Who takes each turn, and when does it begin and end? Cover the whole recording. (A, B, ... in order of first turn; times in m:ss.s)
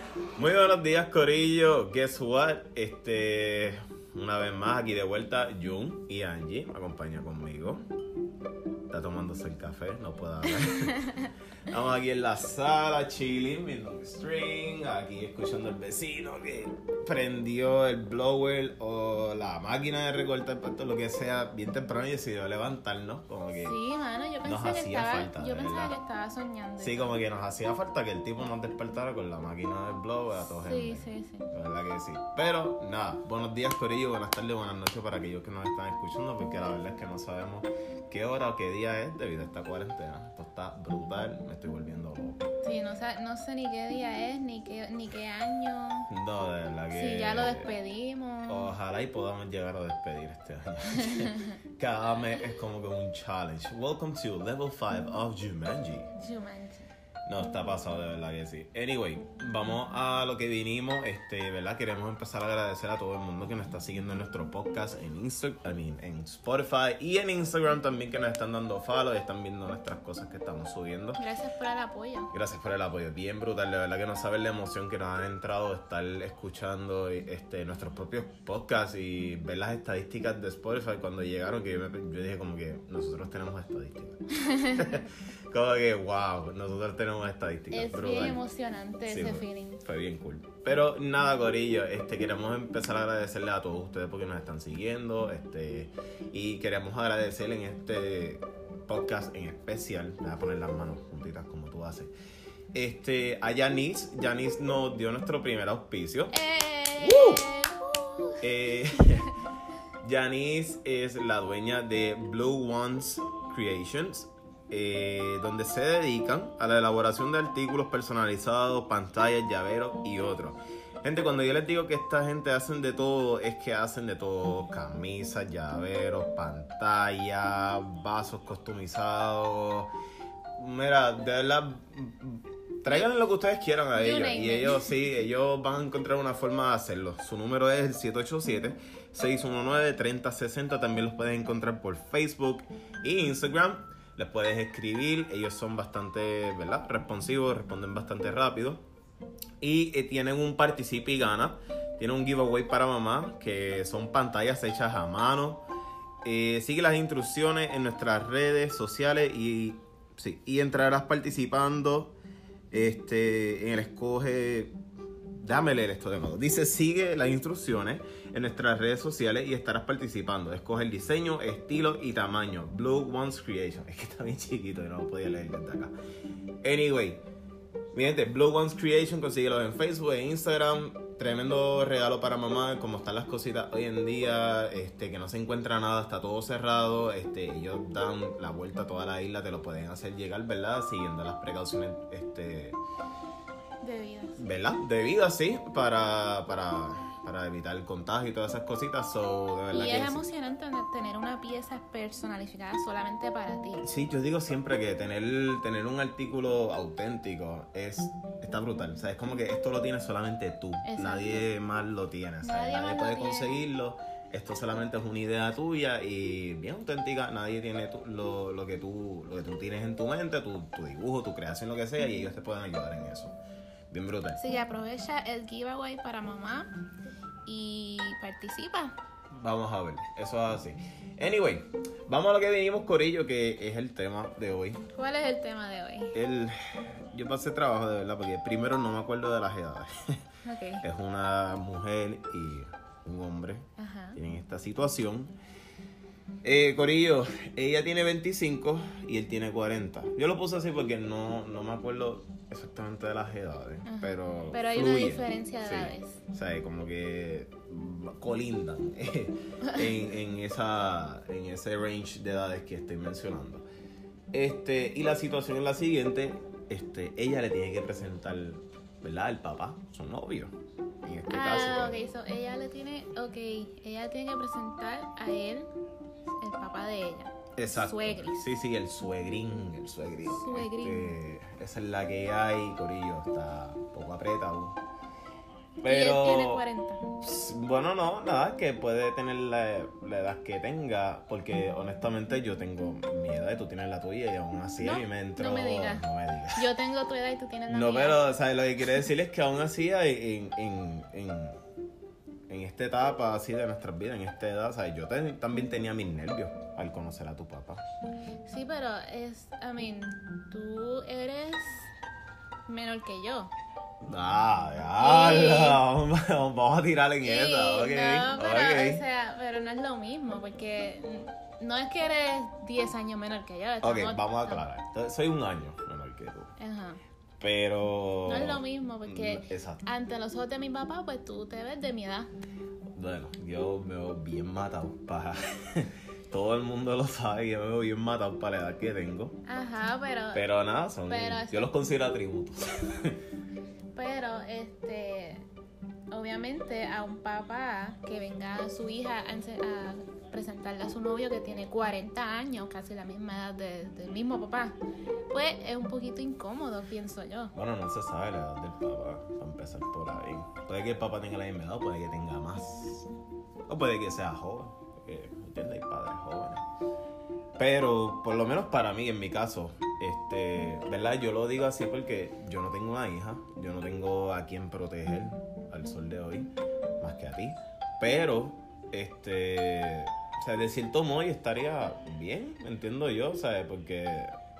0:00.4-0:07.8 A
0:08.9-0:11.1 A
0:10.9-0:11.3 B
0:11.7-0:23.8 A
0:23.5-0:27.2 B
0:24.4-0:26.0 A
0:26.8-0:42.5 A
0:30.3-0:31.5 B
0:42.6-0:46.1 B
0:46.1-0:47.7 A
0:46.9-0:48.7 B
0:48.5-0:56.1 A
0:51.0-0:51.6 B
0:56.1-0:56.9 B
0:57.2-1:11.2 A
1:11.2-1:12.3 B
1:12.3-1:28.4 A
1:24.4-1:24.9 B
1:27.7-1:29.8 B
1:29.1-1:42.1 A
1:42.7-1:46.3 A
1:46.3-1:49.3 B
1:47.0-1:47.4 A
1:48.4-1:49.3 A
1:50.0-2:09.9 A
2:10.6-2:28.8 A
2:13.9-2:14.9 B
2:29.6-2:35.6 A
2:36.2-2:42.2 A
2:42.7-2:44.7 A
2:45.4-2:55.9 A
2:56.6-2:57.2 A
2:57.9-3:12.8 A
3:13.8-3:14.4 B
3:14.4-3:20.2 A
3:19.7-3:23.8 B
3:23.8-3:43.4 A
3:30.8-3:31.4 B
3:32.4-3:33.6 B
3:43.9-3:44.4 A
3:44.4-3:46.7 B
3:47.4-3:48.9 B
3:49.3-3:54.8 A
3:54.9-3:56.2 B
3:56.1-4:00.2 A
4:00.4-4:00.8 B
4:00.8-4:05.3 A
4:03.8-4:04.2 B
4:06.4-4:23.6 A
4:13.8-4:16.2 B
4:24.3-4:32.0 A
4:31.3-4:35.7 B
4:36.3-4:38.5 B
4:37.5-4:44.8 A
4:40.3-4:41.1 B
4:45.8-4:46.6 A
4:45.8-4:47.0 B
4:47.2-4:56.7 A
4:54.8-4:58.2 B
4:57.7-5:01.6 A
5:02.5-5:07.8 A
5:08.4-5:11.9 B
5:12.7-5:13.5 B
5:14.0-5:19.0 A
5:15.0-5:15.8 B
5:17.2-5:24.6 B
5:23.8-5:26.5 A
5:26.6-5:27.0 B
5:27.4-5:29.9 A
5:28.2-5:32.3 B
5:32.9-5:39.4 A
5:39.4-5:40.4 B
5:40.3-5:43.2 A
5:41.1-5:41.7 B
5:43.9-5:45.5 B
5:46.1-5:54.8 B
5:55.3-5:57.5 B
5:57.5-6:03.1 A
6:03.7-6:06.6 A
6:07.6-6:24.3 A